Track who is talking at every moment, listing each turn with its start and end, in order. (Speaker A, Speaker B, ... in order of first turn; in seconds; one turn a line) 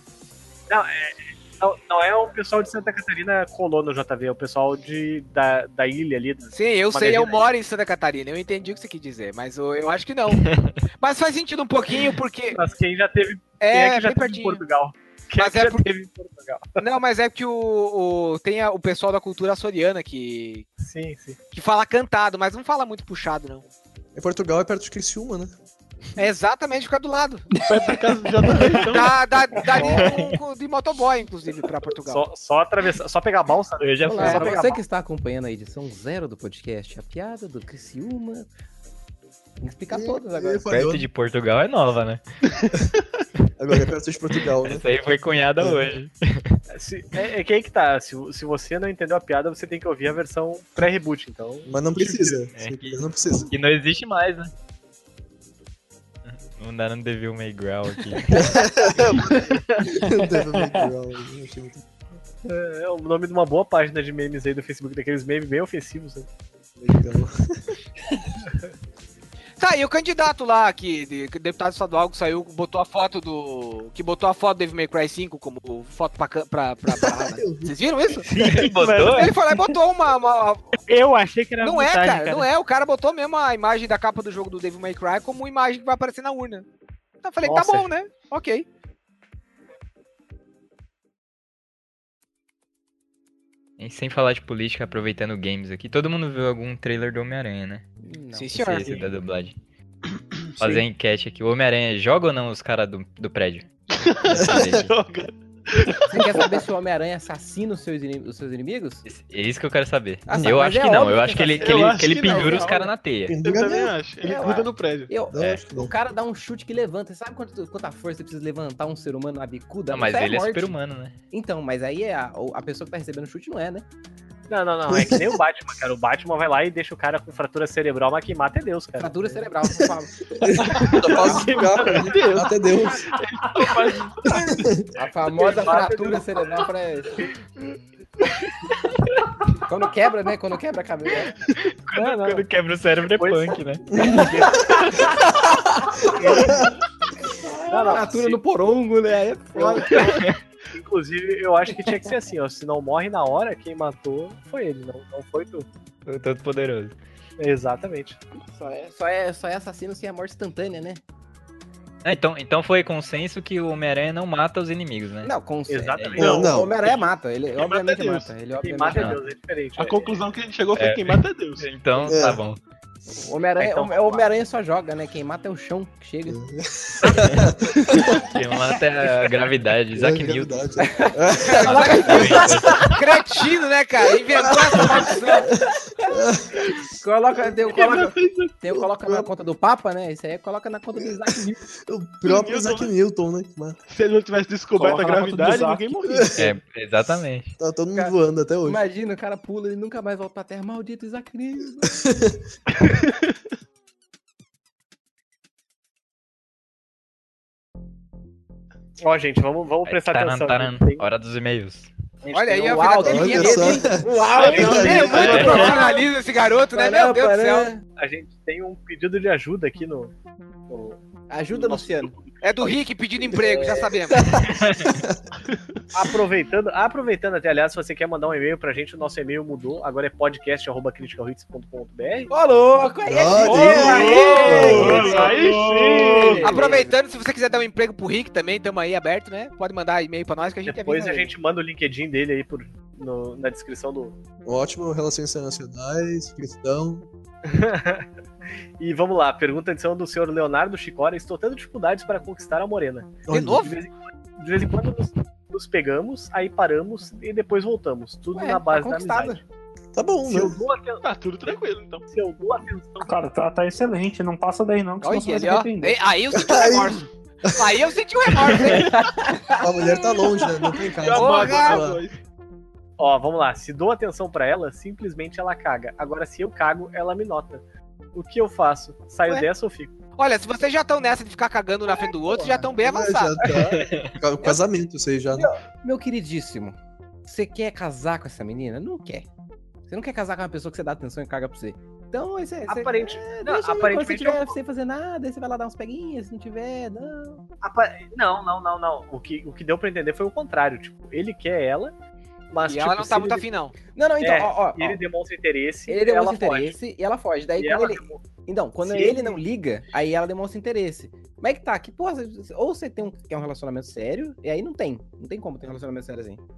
Speaker A: 0.7-7.4
Speaker B: 6.5-10.4
Speaker C: 10.4-10.8
Speaker B: 11.0-12.6
Speaker A: 12.5-16.8
Speaker B: 13.6-14.6
Speaker B: 15.4-15.9
Speaker B: 16.8-20.6
Speaker A: 20.8-21.4
Speaker B: 21.5-23.6
Speaker D: 24.1-25.5
Speaker B: 26.2-27.5
Speaker E: 27.6-29.2
Speaker B: 28.6-32.2
Speaker A: 29.8-30.1
Speaker C: 29.9-30.3
Speaker A: 32.1-34.8
Speaker C: 33.8-34.6
Speaker F: 34.0-38.5
Speaker F: 39.6-40.7
Speaker D: 39.9-41.1
Speaker C: 40.7-42.2
Speaker D: 43.6-44.8
Speaker C: 44.6-46.6
Speaker D: 45.6-45.8
Speaker A: 46.7-52.4
Speaker D: 51.7-53.5
Speaker C: 52.5-54.5
Speaker C: 56.2-58.6
Speaker D: 58.3-61.8
Speaker G: 60.5-60.9
Speaker A: 62.4-66.3
Speaker D: 66.8-67.7
Speaker B: 69.6-78.4
Speaker D: 76.9-77.7
Speaker H: 78.2-79.2
Speaker C: 78.4-79.3
Speaker B: 78.9-80.8
Speaker H: 80.9-82.5
Speaker B: 81.6-86.6
Speaker B: 87.2-88.7
Speaker A: 87.4-87.9
Speaker C: 93.8-97.8
Speaker F: 98.0-99.0
Speaker B: 98.3-98.9
Speaker C: 98.5-99.5
Speaker C: 100.6-103.7
Speaker E: 103.9-106.4
Speaker C: 104.3-104.9
Speaker D: 104.4-104.8
Speaker F: 106.1-109.0
Speaker C: 109.0-113.3
Speaker F: 110.3-112.9
Speaker E: 111.6-112.8
Speaker D: 113.3-114.0
Speaker E: 113.4-115.1
Speaker F: 114.2-120.7
Speaker D: 115.3-115.9
Speaker C: 115.3-115.6
Speaker C: 119.9-121.1
Speaker F: 121.3-123.8
Speaker A: 124.5-129.4
Speaker D: 124.9-125.4
Speaker F: 129.0-132.0
Speaker D: 130.4-133.1
Speaker E: 130.8-134.5
Speaker D: 134.5-134.8
Speaker F: 134.9-137.2
Speaker A: 135.0-136.6
Speaker F: 139.7-141.3
Speaker C: 141.9-143.8
Speaker A: 141.9-142.4
Speaker A: 143.1-145.0
Speaker D: 143.9-144.3
Speaker F: 144.7-146.5
Speaker D: 146.1-146.7
Speaker A: 146.2-146.5
Speaker F: 147.7-150.1
Speaker A: 147.7-148.4
Speaker A: 149.5-155.7
Speaker C: 150.0-150.3
Speaker C: 156.1-156.9
Speaker A: 157.4-158.2
Speaker F: 158.4-161.0
Speaker C: 162.0-165.3
Speaker F: 165.2-169.2
Speaker A: 165.7-167.0
Speaker D: 166.2-166.7
Speaker E: 167.6-168.3
Speaker A: 168.5-170.2
Speaker C: 168.9-169.2
Speaker E: 169.8-171.7
Speaker C: 170.7-172.6
Speaker D: 172.1-172.4
Speaker F: 173.1-176.4
Speaker A: 173.6-174.2
Speaker D: 176.3-178.2
Speaker C: 178.3-180.7
Speaker D: 179.9-182.4
Speaker F: 180.8-182.9
Speaker B: 181.5-185.5
Speaker C: 181.6-182.8
Speaker D: 184.5-185.0
Speaker F: 184.8-186.1
Speaker D: 186.1-186.6
Speaker F: 187.0-191.6
Speaker E: 187.7-188.6
Speaker D: 188.7-189.3
Speaker D: 191.8-193.8
Speaker E: 192.2-192.9
Speaker E: 193.9-196.3
Speaker G: 194.7-196.3
Speaker D: 196.1-196.5
Speaker C: 196.4-197.5
Speaker D: 197.6-198.8
Speaker F: 198.6-202.0
Speaker D: 202.0-202.4
Speaker E: 202.8-203.2
Speaker A: 209.0-211.0
Speaker C: 209.8-211.9
Speaker A: 212.2-212.9
Speaker B: 212.3-213.9
Speaker F: 212.5-216.0
Speaker D: 213.0-215.3
Speaker A: 214.3-215.8
Speaker B: 214.4-217.7
Speaker E: 214.5-215.7
Speaker F: 216.7-217.8
Speaker A: 218.0-220.1
Speaker A: 220.7-222.7
Speaker F: 221.3-222.1
Speaker B: 222.4-224.2
Speaker D: 224.1-225.2
Speaker A: 225.9-232.3
Speaker F: 232.3-235.4
Speaker D: 233.1-235.2
Speaker E: 233.6-236.4
Speaker B: 233.9-234.8
Speaker G: 234.6-236.1
Speaker A: 234.7-236.9
Speaker F: 236.1-236.8
Speaker B: 236.4-241.3
Speaker A: 240.7-244.2
Speaker D: 244.4-247.1
Speaker A: 247.4-248.1
Speaker A: 248.8-259.4
Speaker D: 253.3-253.7
Speaker B: 253.3-253.7
Speaker F: 258.3-259.4
Speaker D: 259.9-260.6
Speaker A: 260.2-261.0
Speaker E: 261.0-262.1
Speaker A: 262.1-263.1
Speaker G: 263.0-266.0
Speaker B: 265.0-268.9
Speaker D: 266.3-267.7
Speaker F: 268.7-270.7
Speaker D: 269.6-272.0
Speaker E: 270.9-272.1
Speaker B: 271.1-271.8
Speaker A: 273.0-277.6
Speaker A: 278.1-279.9
Speaker B: 280.2-283.4
Speaker F: 282.3-282.7
Speaker D: 282.8-285.5
Speaker C: 283.7-284.1
Speaker F: 285.3-289.3
Speaker F: 289.9-297.4
Speaker A: 292.7-294.6
Speaker A: 297.6-301.9
Speaker A: 302.5-303.4
Speaker B: 302.6-303.7
Speaker F: 303.9-305.0
Speaker A: 304.2-306.8
Speaker F: 305.9-316.4
Speaker A: 307.6-308.3
Speaker A: 308.8-309.4